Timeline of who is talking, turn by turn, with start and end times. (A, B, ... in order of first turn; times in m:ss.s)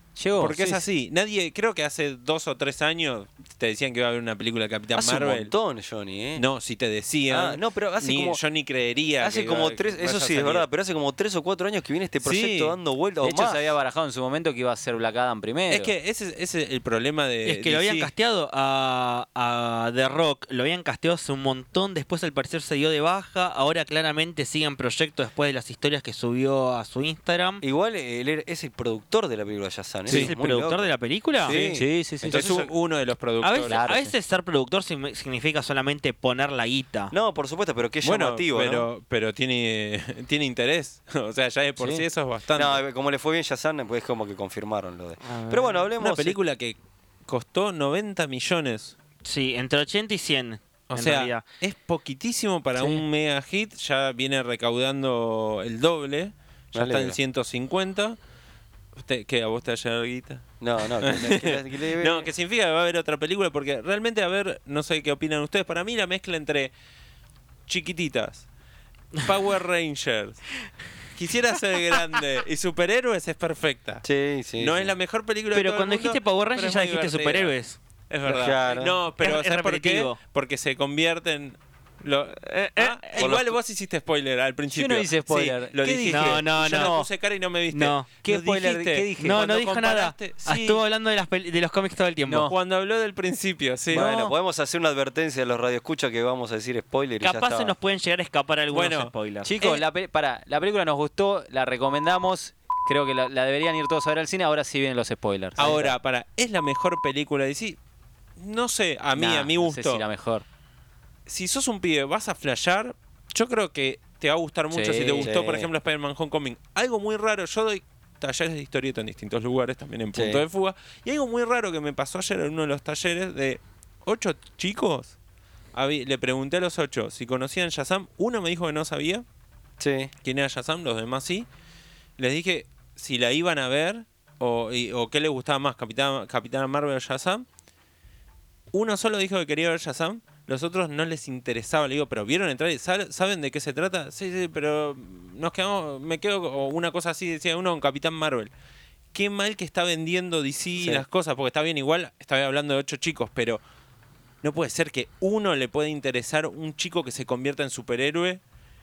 0:00.2-0:00.8 A
0:00.4-0:05.5 B
0:04.9-0:06.4 C
0:06.4-0:10.7 B
0:07.3-0:08.4 C
0:09.2-0:13.7 C
0:12.2-0:12.8 B
0:13.2-0:15.9 A
0:15.7-0:18.1 B
0:17.4-0:27.6 D
0:27.6-0:32.7 C
0:30.1-0:31.5 D
0:31.5-0:33.8 B
0:31.7-0:32.5 A
0:33.4-0:37.1 D
0:33.7-0:34.2 A
0:37.1-0:38.9 C
0:38.0-0:42.8 B
0:41.8-0:42.0 A
0:42.5-0:46.4 C
0:45.2-0:45.9 D
0:46.0-0:49.0 B
0:49.2-0:51.4 D
0:50.9-0:58.2 B
0:56.7-0:57.2 C
0:59.0-1:06.7 B
1:00.6-1:02.3 C
1:07.7-1:08.5 B
1:09.2-1:10.4 B
1:11.2-1:14.0 B
1:14.0-1:14.9 C
1:14.6-1:17.5 B
1:15.5-1:17.8 D
1:18.1-1:30.8 B
1:18.3-1:19.0 C
1:19.2-1:20.2 D
1:22.4-1:23.3 D
1:23.2-1:23.6 C
1:24.7-1:27.1 A
1:26.1-1:27.1 D
1:27.7-1:28.1 D
1:27.7-1:29.6 A
1:29.2-1:32.5 D
1:32.3-1:32.5 A
1:32.5-1:34.1 B
1:33.9-1:37.7 C
1:33.9-1:34.3 A
1:37.2-1:39.6 D
1:38.7-1:39.8 B
1:39.4-1:45.9 A
1:45.6-1:47.8 B
1:45.6-1:45.9 C
1:48.4-1:50.0 B
1:49.2-1:50.4 A
1:51.3-2:05.2 B
1:54.7-1:55.3 A
1:55.2-1:55.7 C
2:00.1-2:00.4 C
2:05.7-2:09.2 B
2:09.8-2:10.1 C
2:10.2-2:11.5 B
2:12.2-2:17.4 B
2:18.7-2:28.5 B
2:29.1-2:33.6 B
2:30.8-2:31.0 C
2:34.4-2:38.4 B